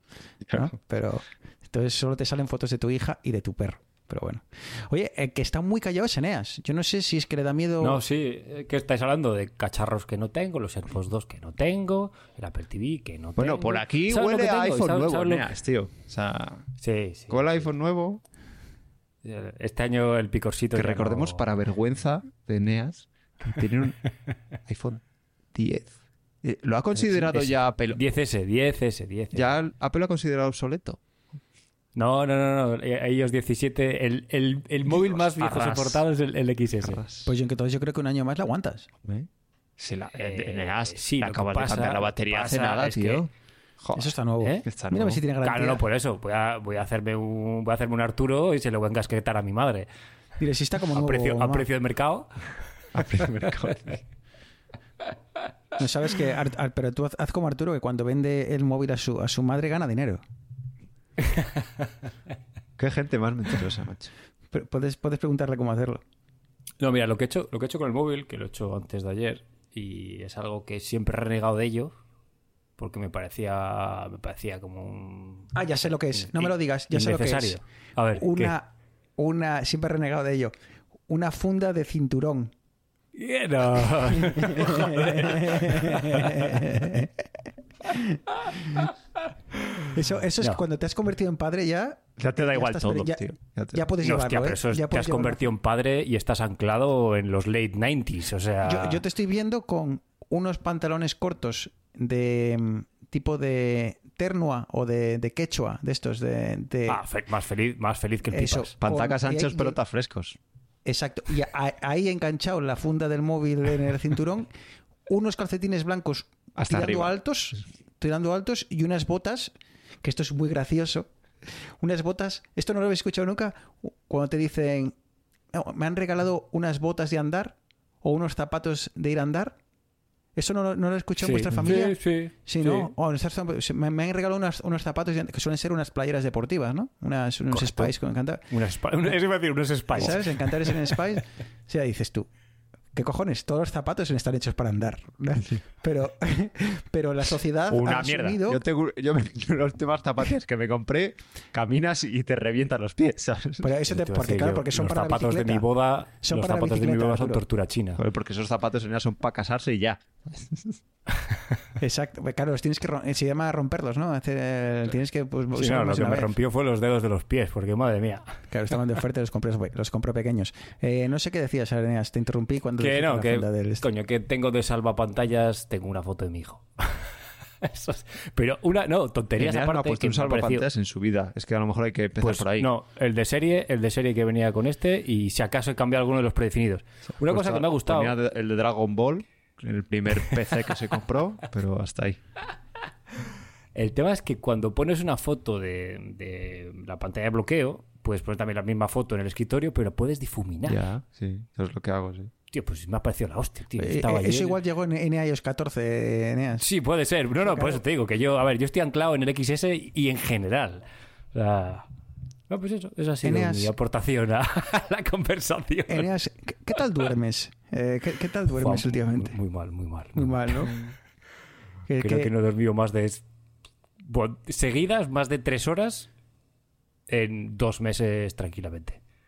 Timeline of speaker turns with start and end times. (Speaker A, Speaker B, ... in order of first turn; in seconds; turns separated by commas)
Speaker A: 0.5-0.7, Speaker B: 0.5-8.0, Speaker C: 7.8-15.4, Speaker A: 13.4-16.7, Speaker C: 16.8-17.7, Speaker A: 17.3-18.2, Speaker C: 19.2-21.4, Speaker A: 20.7-24.0, Speaker A: 24.6-25.0, Speaker A: 25.5-28.0, Speaker C: 27.1-29.6, Speaker A: 29.3-31.0, Speaker C: 31.9-37.0, Speaker A: 34.9-36.0, Speaker A: 36.8-37.3, Speaker B: 37.2-38.9, Speaker A: 39.0-43.3, Speaker C: 40.1-43.2, Speaker A: 43.8-44.1, Speaker B: 43.9-45.8, Speaker A: 44.6-45.2, Speaker C: 45.4-49.9, Speaker B: 50.4-51.7, Speaker C: 50.9-52.4, Speaker A: 52.9-54.0, Speaker B: 55.8-60.2, Speaker C: 61.3-61.6, Speaker A: 62.8-64.1, Speaker B: 64.5-66.0, Speaker C: 66.8-71.9, Speaker C: 72.8-75.5, Speaker B: 75.5-77.6, Speaker C: 76.2-78.5, Speaker B: 78.1-80.5, Speaker B: 81.1-82.5, Speaker C: 83.1-86.8, Speaker B: 84.1-87.3, Speaker B: 87.8-88.8, Speaker B: 89.9-93.2, Speaker A: 92.2-93.8, Speaker B: 93.7-95.5, Speaker C: 94.0-99.0, Speaker B: 98.6-107.0, Speaker C: 106.9-108.7, Speaker B: 108.3-109.8, Speaker A: 108.8-110.4, Speaker B: 110.8-114.5, Speaker B: 115.0-124.9, Speaker A: 116.5-117.1, Speaker B: 125.5-129.6, Speaker B: 130.3-138.4, Speaker C: 131.2-132.9, Speaker C: 137.5-137.9, Speaker C: 138.5-141.0, Speaker B: 139.9-142.3, Speaker B: 142.9-148.6, Speaker A: 147.7-153.7, Speaker B: 153.6-155.7, Speaker C: 153.9-158.0, Speaker B: 156.2-157.4, Speaker A: 158.0-160.8, Speaker B: 161.8-166.3, Speaker C: 165.5-168.5, Speaker B: 168.5-173.8, Speaker C: 172.8-180.7, Speaker A: 179.4-182.7, Speaker C: 182.2-188.1, Speaker A: 187.2-192.2, Speaker C: 193.7-200.8, Speaker A: 200.7-202.3, Speaker C: 202.5-204.6, Speaker B: 203.8-206.6, Speaker C: 206.6-211.9, Speaker B: 207.4-207.8, Speaker C: 212.5-216.1, Speaker B: 213.2-213.7, Speaker B: 215.9-219.4, Speaker C: 218.6-220.7, Speaker B: 220.1-220.8, Speaker B: 221.9-222.3, Speaker C: 222.0-223.2, Speaker C: 224.0-226.1, Speaker C: 227.1-229.0